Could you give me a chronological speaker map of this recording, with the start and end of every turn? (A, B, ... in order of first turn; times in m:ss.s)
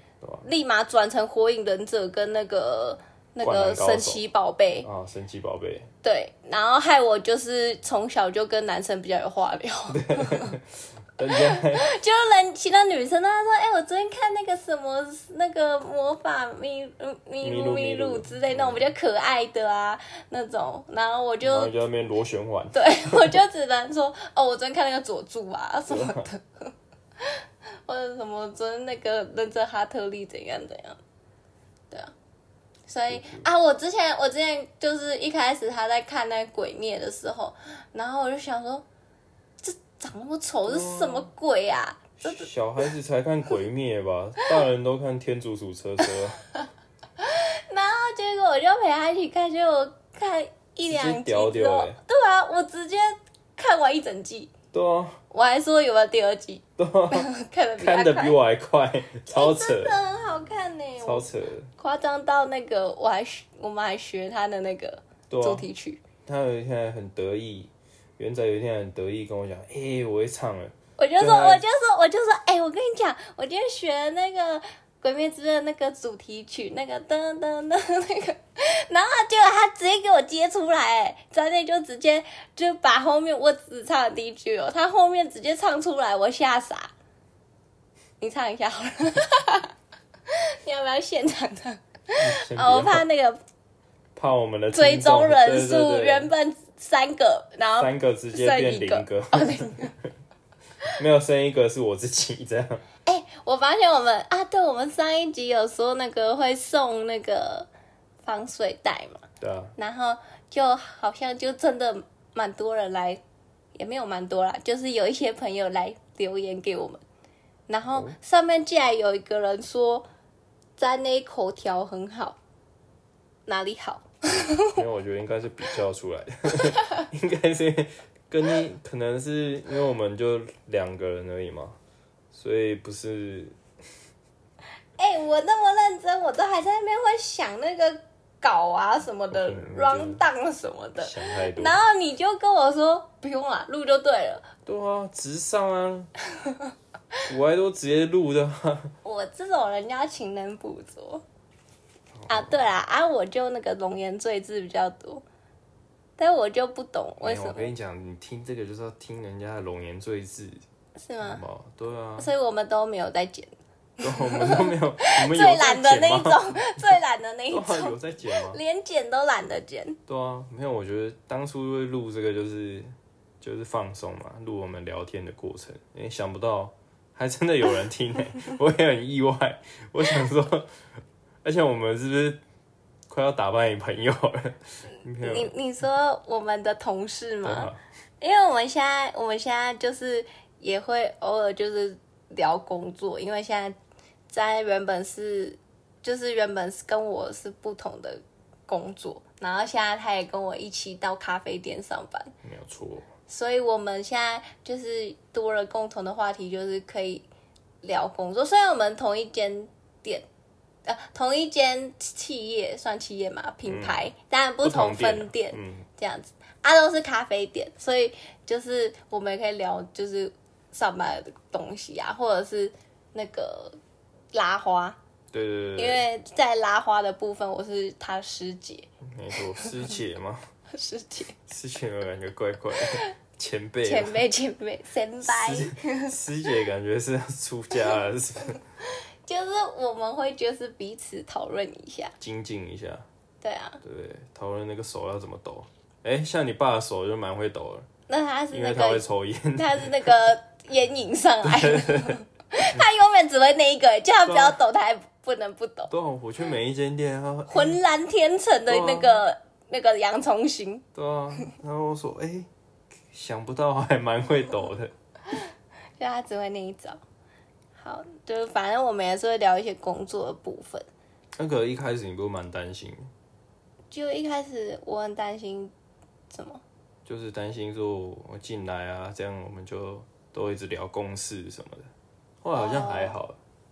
0:00.4-0:04.9 A
0:03.4-0:04.2 B
0:04.8-0:05.9 B
0:06.0-0:10.5 A
0:09.9-0:11.9 B
0:11.3-0:21.7 A
0:17.4-0:18.9 B
0:21.4-0:23.4 B
0:22.7-0:26.7 A
0:25.9-0:26.3 B
0:27.2-0:31.0 A
0:32.9-0:38.8 A
0:33.1-0:33.4 B
0:39.6-0:42.5 A
0:40.6-0:41.3 B
0:42.2-0:46.4 B
0:47.2-0:54.5 A
0:50.9-0:52.0 B
0:54.7-0:55.2 B
0:55.3-0:58.4 A
0:56.8-0:59.9 B
0:59.3-1:01.2 A
1:01.0-1:01.7 B
1:01.8-1:06.0 A
1:05.3-1:05.6 B
1:06.2-1:11.6 B
1:11.0-1:26.9 A
1:28.2-1:29.7 A
1:30.3-1:33.4 A
1:32.2-1:33.0 B
1:34.2-1:36.3 B
1:34.7-1:39.9 A
1:37.8-1:40.1 B
1:40.9-1:42.8 B
1:43.0-1:47.7 A
1:48.2-1:49.2 A
1:49.4-1:49.7 B
1:49.8-1:53.2 A
1:53.8-1:57.0 A
1:57.7-2:00.1 A
1:57.9-1:58.2 B
2:00.8-2:02.4 A
2:03.5-2:04.8 A
2:04.6-2:11.8 B
2:12.3-2:13.6 B
2:15.0-2:24.5 A
2:19.3-2:20.2 B
2:21.0-2:21.8 B
2:24.6-2:26.1 B
2:27.3-2:28.9 B
2:29.0-2:31.2 A
2:32.2-2:32.6 B
2:32.3-2:35.2 A
2:36.2-2:37.7 A
2:37.2-2:40.6 B
2:41.0-2:41.4 A
2:41.2-2:42.3 B
2:42.2-2:43.5 A
2:44.0-2:46.4 B
2:44.0-2:50.0 A
2:47.5-2:48.6 B
2:50.1-3:00.7 B
3:01.4-3:02.4 B
3:03.1-3:05.5 B
3:05.2-3:13.8 A
3:07.4-3:07.8 B
3:14.3-3:22.3 A
3:22.4-3:23.1 B
3:23.3-3:27.2 A
3:27.8-3:30.2 A
3:30.8-3:43.8 A
3:33.6-3:34.1 B
3:34.6-3:35.8 B
3:44.3-3:45.0 A
3:45.3-3:46.0 B
3:45.8-3:48.9 A
3:49.0-3:50.4 B
3:50.7-3:51.4 A
3:51.5-3:54.2 B
3:53.8-3:56.2 A
3:55.2-3:58.6 B
3:59.2-4:02.1 A
4:02.2-4:03.0 B
4:03.4-4:03.8 A
4:03.8-4:07.9 B
4:08.1-4:15.9 A
4:08.5-4:10.2 B
4:11.4-4:12.2 B
4:14.2-4:14.6 B
4:15.9-4:17.8 B
4:17.5-4:20.8 A
4:18.7-4:19.2 B
4:20.9-4:22.5 B
4:23.1-4:24.9 B
4:26.0-4:27.0 A
4:27.8-4:30.9 A
4:31.4-4:33.1 B
4:33.9-4:35.7 A
4:36.3-4:36.6 A
4:37.0-4:41.9 B
4:42.4-4:43.4 B
4:42.5-4:43.1 A